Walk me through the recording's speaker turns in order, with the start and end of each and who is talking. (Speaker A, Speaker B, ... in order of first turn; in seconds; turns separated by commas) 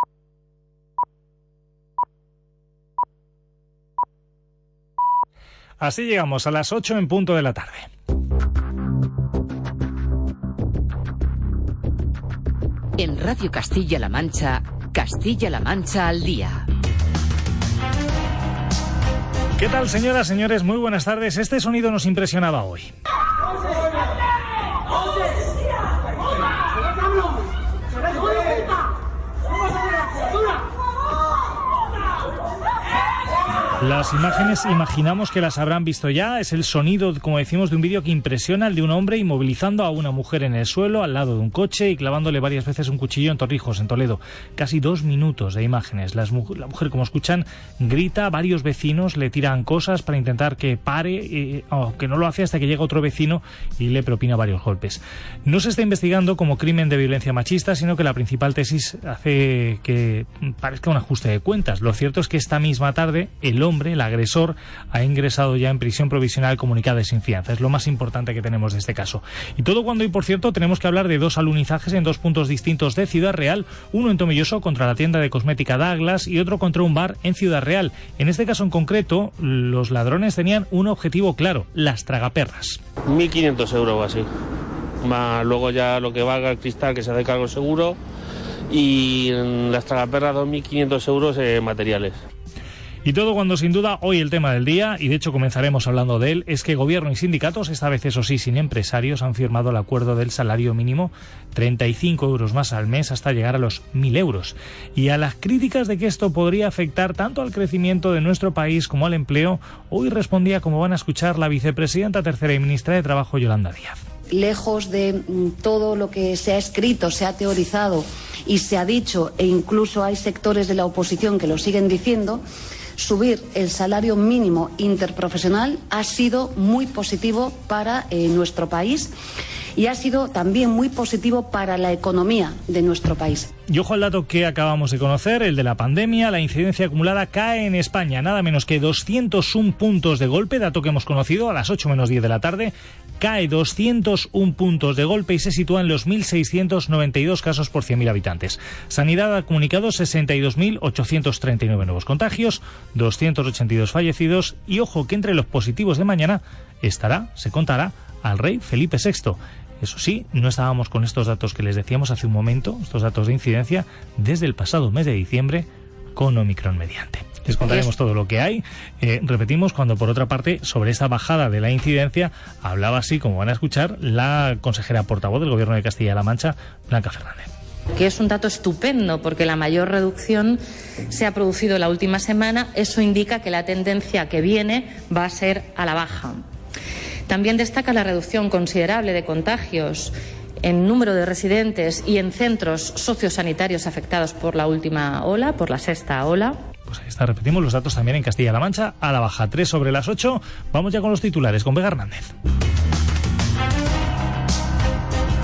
Speaker A: 5.8-7.9, Speaker B: 13.0-16.7, Speaker A: 19.6-22.9, Speaker A: 33.8-82.8, Speaker C: 83.1-84.2, Speaker C: 85.0-88.0, Speaker C: 88.7-92.2, Speaker A: 93.0-114.0, Speaker D: 114.3-122.4, Speaker D: 123.0-129.1, Speaker D: 129.8-133.5, Speaker A: 133.7-177.5, Speaker E: 178.0-186.4, Speaker E: 187.3-196.6, Speaker A: 196.9-202.3